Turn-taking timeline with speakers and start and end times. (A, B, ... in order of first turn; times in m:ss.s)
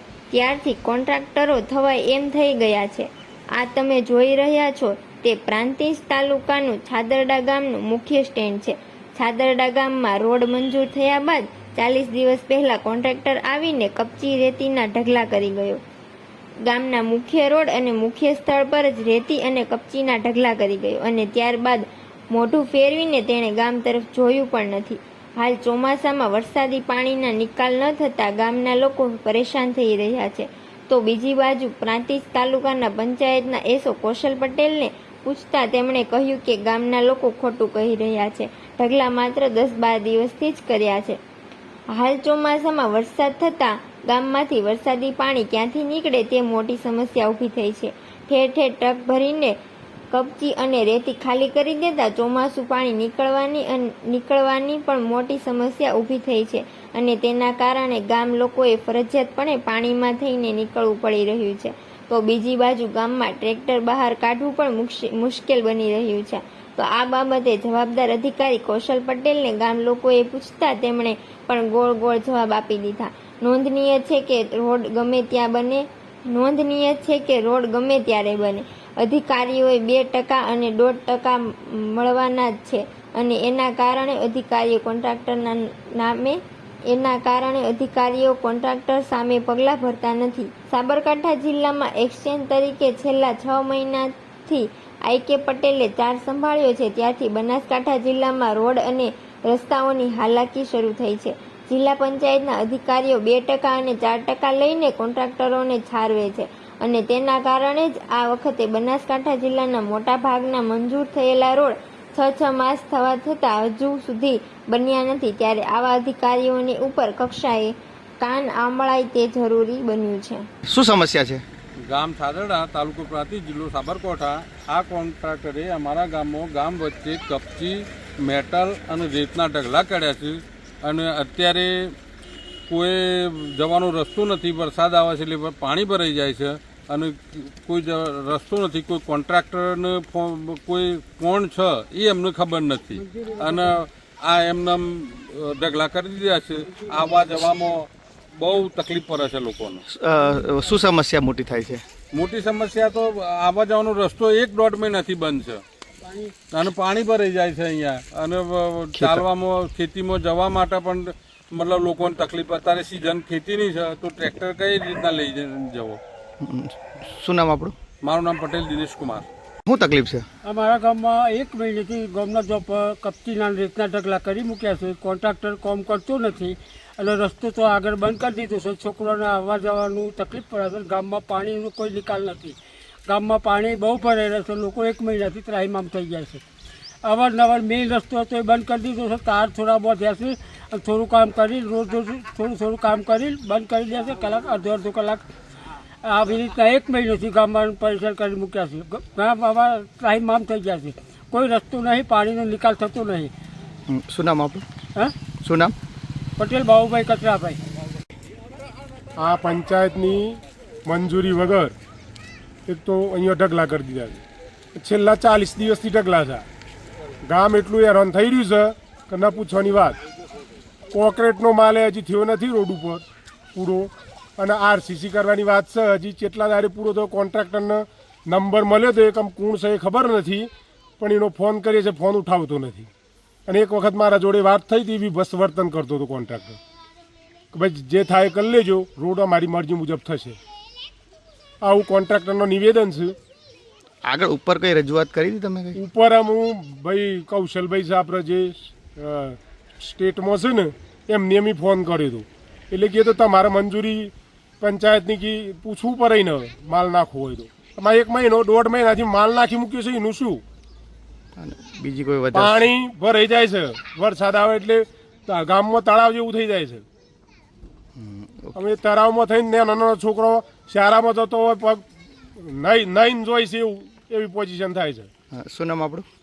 0:00.3-0:15.8 A
0:16.6-0:41.2 A
0:41.9-0:49.6 A
0:50.1-2:00.5 A
2:00.6-2:01.4 B
2:01.9-2:11.9 C
2:12.7-2:29.8 C
2:23.1-2:23.6 D
2:29.9-2:31.8 B
2:32.1-2:35.6 C
2:36.0-2:36.3 D
2:36.5-2:46.0 C
2:39.0-2:39.2 B
2:46.4-2:47.7 B
2:48.0-2:49.3 C
2:49.6-2:50.2 B
2:50.4-3:06.4 D
3:07.0-3:15.2 D
3:16.0-3:23.3 D
3:23.9-3:24.6 B
3:25.4-3:25.7 B
3:26.4-3:27.6 D
3:29.2-3:31.7 E
3:32.7-3:34.2 E
3:34.8-3:36.4 E
3:37.2-3:40.0 E
3:40.9-3:43.0 E
3:43.5-3:52.9 E
3:53.5-3:56.6 E
3:57.5-4:00.4 E
4:01.6-4:03.1 E
4:04.0-4:05.8 B
4:05.8-4:20.4 E
4:21.4-4:22.7 B
4:22.3-4:26.8 E
4:28.0-4:28.5 B
4:28.5-4:31.8 E
4:32.4-4:35.1 E
4:35.3-4:36.1 B